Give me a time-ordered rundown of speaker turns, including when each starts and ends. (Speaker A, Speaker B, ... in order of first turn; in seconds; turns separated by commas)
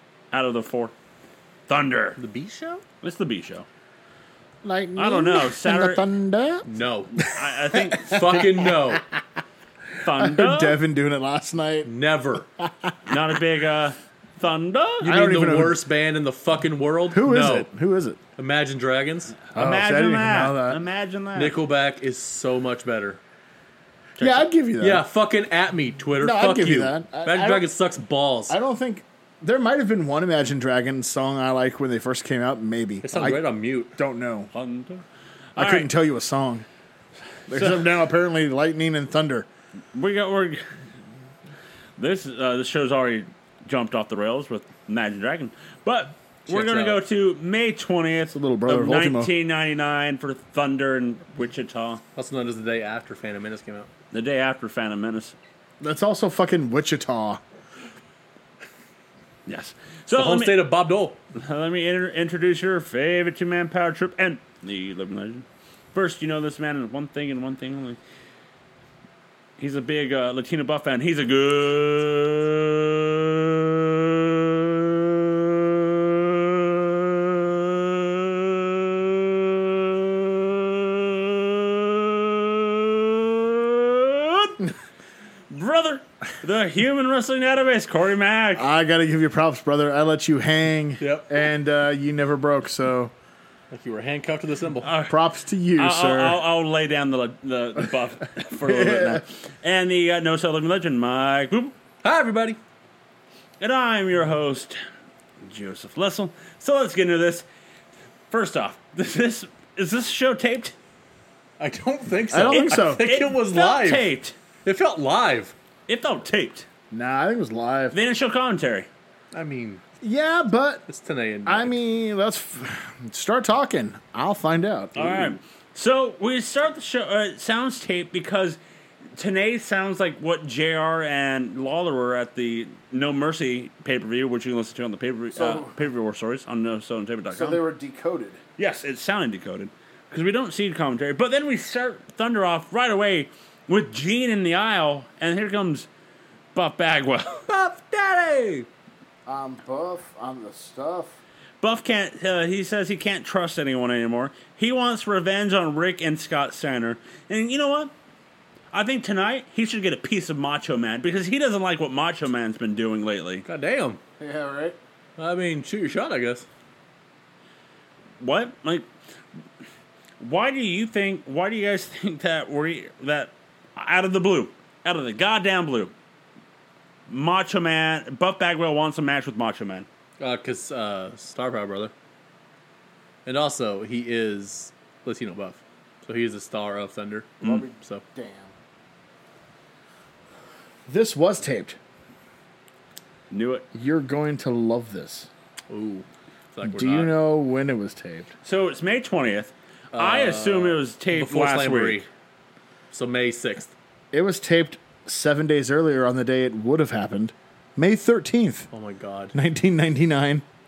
Speaker A: 0.3-0.9, Speaker A: 1.7-2.2, Speaker B: 2.2-2.8, Speaker A: 3.0-3.6, Speaker C: 4.6-8.0, Speaker A: 5.0-6.1, Speaker B: 6.7-7.1, Speaker A: 7.2-8.4, Speaker B: 8.1-9.0, Speaker A: 10.0-10.8, Speaker C: 10.1-11.9, Speaker B: 11.8-12.5, Speaker C: 12.6-13.2, Speaker A: 13.1-15.1, Speaker B: 15.0-17.7, Speaker C: 15.0-15.8, Speaker C: 17.1-18.2, Speaker B: 18.4-19.4, Speaker A: 19.5-21.6, Speaker C: 19.5-20.8, Speaker B: 21.3-23.2, Speaker A: 24.2-24.5, Speaker C: 24.2-25.1, Speaker B: 24.8-28.6, Speaker C: 26.2-27.7, Speaker C: 28.5-34.5, Speaker B: 33.0-33.9, Speaker A: 34.5-35.0, Speaker A: 35.5-35.9, Speaker C: 35.6-36.6, Speaker A: 37.5-37.9, Speaker C: 37.5-39.5, Speaker A: 39.9-40.6, Speaker A: 42.0-52.0, Speaker B: 46.5-47.0, Speaker C: 48.3-49.3, Speaker B: 52.1-53.9, Speaker A: 54.1-55.4, Speaker C: 55.8-57.4, Speaker A: 59.5-60.6, Speaker B: 60.1-61.2, Speaker A: 61.3-68.0, Speaker A: 69.6-84.7, Speaker A: 85.5-88.7, Speaker C: 88.5-93.1, Speaker B: 91.0-91.4, Speaker B: 93.7-94.9, Speaker A: 94.8-95.2, Speaker C: 95.1-96.4, Speaker A: 95.8-101.7, Speaker C: 98.6-99.2, Speaker B: 102.0-102.6, Speaker A: 103.6-104.8, Speaker A: 105.5-107.5, Speaker A: 108.3-110.7, Speaker B: 111.6-114.1, Speaker C: 112.3-113.0, Speaker A: 112.4-114.4, Speaker B: 114.6-115.5, Speaker A: 115.9-116.7, Speaker C: 116.9-118.0, Speaker A: 117.9-118.9, Speaker B: 119.3-119.8, Speaker C: 120.0-120.8, Speaker B: 120.9-121.8, Speaker C: 121.4-125.4, Speaker A: 124.9-128.6, Speaker A: 129.2-137.6, Speaker C: 135.3-135.8, Speaker C: 137.3-138.4, Speaker A: 138.6-145.9, Speaker A: 146.5-147.5, Speaker B: 147.5-148.7, Speaker C: 149.2-151.2, Speaker A: 151.6-157.9, Speaker A: 158.7-163.4, Speaker B: 163.4-164.0, Speaker C: 164.2-164.8, Speaker B: 165.2-166.4, Speaker A: 168.2-168.8, Speaker A: 170.2-175.9, Speaker A: 177.1-179.8, Speaker B: 180.2-181.9, Speaker B: 183.2-188.0, Speaker C: 187.4-188.5, Speaker C: 190.9-191.8, Speaker A: 193.3-193.7, Speaker C: 193.7-195.3, Speaker B: 195.7-197.1, Speaker C: 196.6-198.3, Speaker A: 198.4-202.0, Speaker B: 199.9-202.1, Speaker B: 202.9-203.7, Speaker C: 204.1-208.7, Speaker B: 208.7-209.3, Speaker C: 209.3-210.4